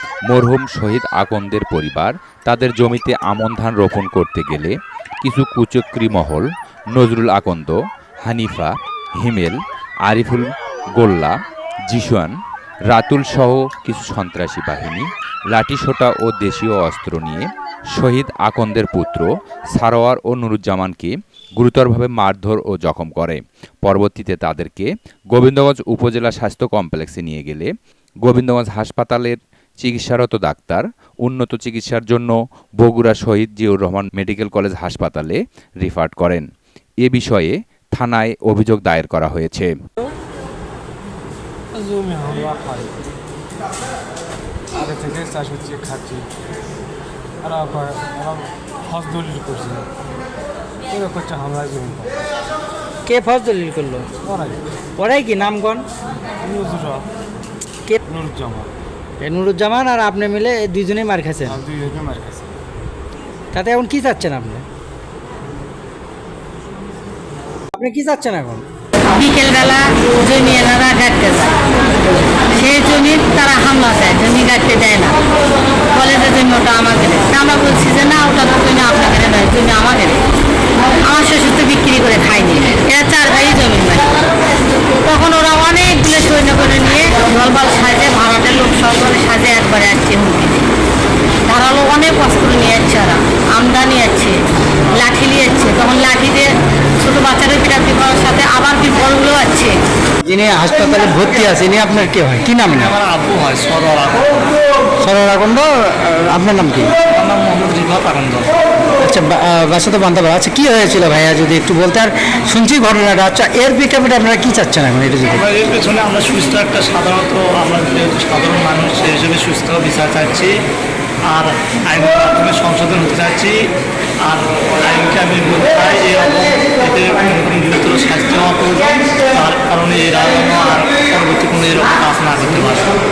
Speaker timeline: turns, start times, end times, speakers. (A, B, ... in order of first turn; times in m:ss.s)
0:00.3-0:11.4 A
0:11.9-0:12.3 A
0:12.9-0:27.7 A
0:28.2-0:36.4 A
0:37.0-0:39.7 A
0:41.8-0:43.0 B
0:44.8-0:46.3 B
0:47.4-0:49.8 B
0:50.9-0:52.2 B
0:53.0-0:54.1 C
0:55.0-0:55.8 C
0:56.4-0:57.1 B
0:58.1-0:58.7 B
0:59.2-1:01.6 C
1:01.6-1:02.5 B
1:03.5-1:04.6 C
1:07.7-1:08.6 C
1:09.0-1:11.6 D
1:12.5-1:15.2 D
1:15.9-1:20.2 D
1:21.0-1:24.2 D
1:25.0-1:30.6 D
1:31.5-1:34.4 D
1:34.9-1:39.7 D
1:40.2-1:42.9 C
1:42.8-1:44.6 E
1:45.0-1:46.9 C
1:47.0-1:48.6 E
1:49.0-1:55.4 C
1:55.4-2:00.5 E
2:01.3-2:03.7 E
2:04.2-2:13.0 E